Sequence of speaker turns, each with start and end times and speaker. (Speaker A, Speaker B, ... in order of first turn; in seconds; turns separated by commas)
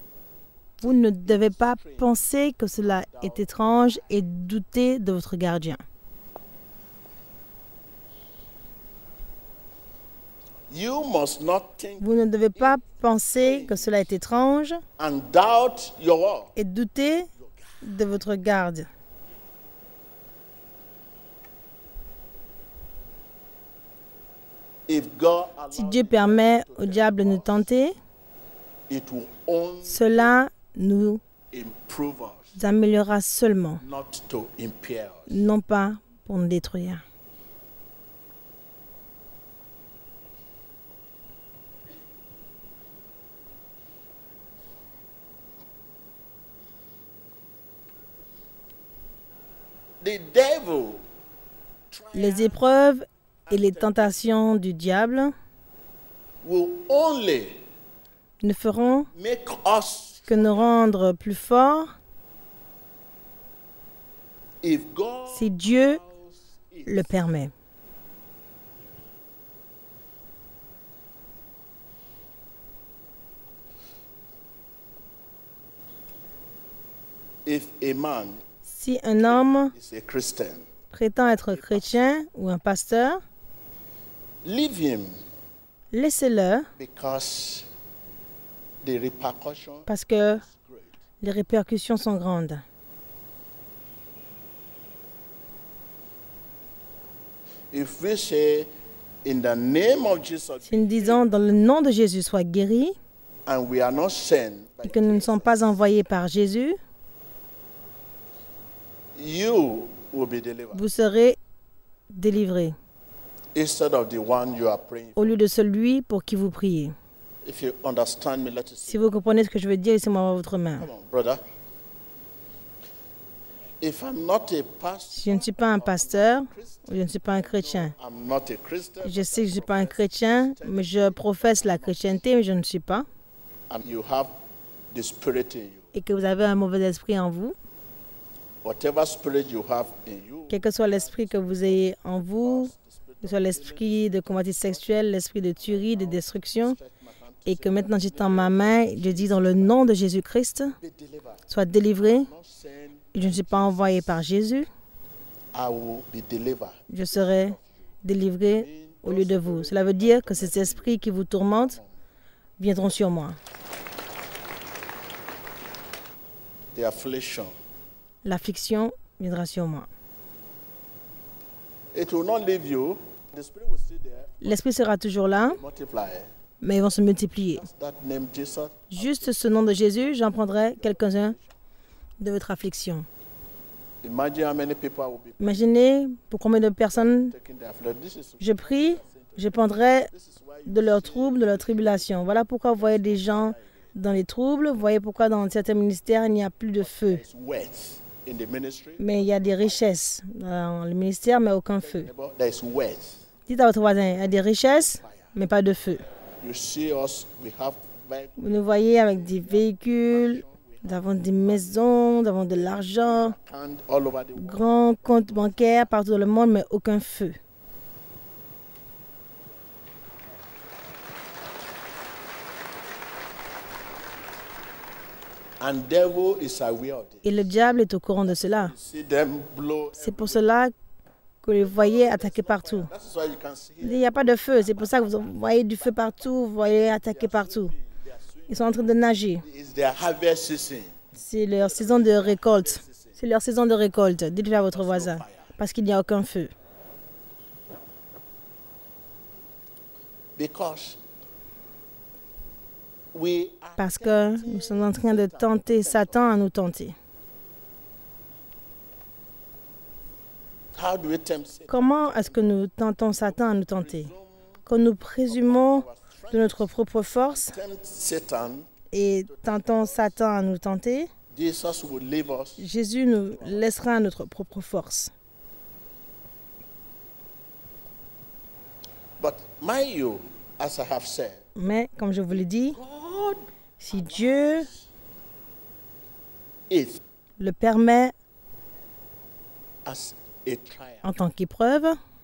Speaker A: 0.8-5.8, Speaker B: 0.8-2.2, Speaker B: 2.8-4.0, Speaker B: 10.7-14.1, Speaker A: 12.0-14.8, Speaker B: 15.0-16.5, Speaker A: 16.6-17.3, Speaker B: 17.6-18.1, Speaker A: 17.8-18.9, Speaker B: 24.9-27.7, Speaker A: 25.7-27.9, Speaker B: 28.9-30.3, Speaker A: 29.8-31.2, Speaker B: 31.5-32.6, Speaker A: 32.5-33.8, Speaker B: 33.8-35.4, Speaker A: 35.3-37.0, Speaker B: 50.0-51.0, Speaker B: 51.9-52.6, Speaker A: 52.1-55.3, Speaker B: 53.5-54.4, Speaker B: 56.4-57.6, Speaker A: 58.4-59.1, Speaker B: 59.1-60.7, Speaker A: 60.3-61.9, Speaker B: 64.6-67.3, Speaker A: 65.3-66.0, Speaker A: 66.8-67.5, Speaker B: 77.5-78.4, Speaker A: 78.6-79.7, Speaker B: 79.2-80.6, Speaker A: 80.9-83.2, Speaker B: 81.2-82.0, Speaker B: 84.4-85.2, Speaker A: 85.9-86.7, Speaker B: 86.8-87.7, Speaker B: 88.8-90.9, Speaker A: 89.9-90.4, Speaker A: 91.2-92.6, Speaker B: 97.7-98.7, Speaker B: 99.2-101.3, Speaker A: 100.7-103.0, Speaker B: 103.5-105.8, Speaker A: 104.8-106.8, Speaker B: 109.2-110.8, Speaker A: 110.7-111.4, Speaker A: 112.1-112.8, Speaker B: 113.5-115.4, Speaker A: 115.2-116.9, Speaker B: 117.4-119.1, Speaker A: 118.9-120.9, Speaker B: 120.8-121.4, Speaker B: 123.8-132.2, Speaker A: 125.1-127.9, Speaker A: 129.0-133.1, Speaker B: 133.7-134.3, Speaker B: 134.9-135.9, Speaker A: 135.9-137.5, Speaker B: 138.6-149.9, Speaker A: 140.5-142.7, Speaker A: 143.2-146.8, Speaker A: 147.5-150.7, Speaker B: 150.8-154.2, Speaker A: 151.5-152.3, Speaker A: 153.1-154.7, Speaker B: 155.5-157.8, Speaker A: 156.9-161.8, Speaker B: 158.5-161.9, Speaker A: 162.6-163.4, Speaker B: 166.7-167.5, Speaker A: 168.2-169.9, Speaker B: 171.9-174.6, Speaker A: 174.4-175.6, Speaker B: 175.4-176.3, Speaker A: 176.6-177.7, Speaker B: 177.6-181.5, Speaker A: 178.9-181.3, Speaker A: 182.2-183.1, Speaker B: 184.0-185.7, Speaker A: 185.4-187.3, Speaker B: 186.9-192.1, Speaker A: 188.4-190.1, Speaker A: 190.7-197.2, Speaker B: 192.7-193.9, Speaker B: 196.8-199.9, Speaker A: 199.0-202.1, Speaker B: 201.8-203.2, Speaker A: 203.5-206.0, Speaker B: 204.8-205.3, Speaker B: 206.4-211.9, Speaker A: 208.4-213.3, Speaker B: 212.5-215.9, Speaker A: 214.4-217.4, Speaker B: 225.6-227.4, Speaker A: 227.2-228.7, Speaker B: 228.2-230.5, Speaker A: 230.0-230.7, Speaker A: 231.4-232.9, Speaker B: 231.6-236.4, Speaker A: 233.8-237.7, Speaker B: 236.9-240.9, Speaker A: 238.5-239.4, Speaker A: 241.1-246.5, Speaker B: 241.6-243.2, Speaker B: 244.7-245.6, Speaker B: 250.3-251.0, Speaker B: 253.1-256.2, Speaker A: 253.8-256.9, Speaker B: 260.7-262.6, Speaker A: 261.7-264.1, Speaker B: 263.2-264.6, Speaker A: 264.7-267.5, Speaker B: 265.3-268.7, Speaker A: 268.9-271.1, Speaker B: 269.3-270.2, Speaker B: 271.3-272.7, Speaker A: 272.6-275.1, Speaker B: 273.2-273.7, Speaker B: 279.2-281.4, Speaker A: 281.5-282.8, Speaker B: 282.4-284.8, Speaker A: 283.8-284.7, Speaker B: 286.7-287.0, Speaker A: 287.4-288.1, Speaker B: 289.9-291.1, Speaker A: 291.0-292.0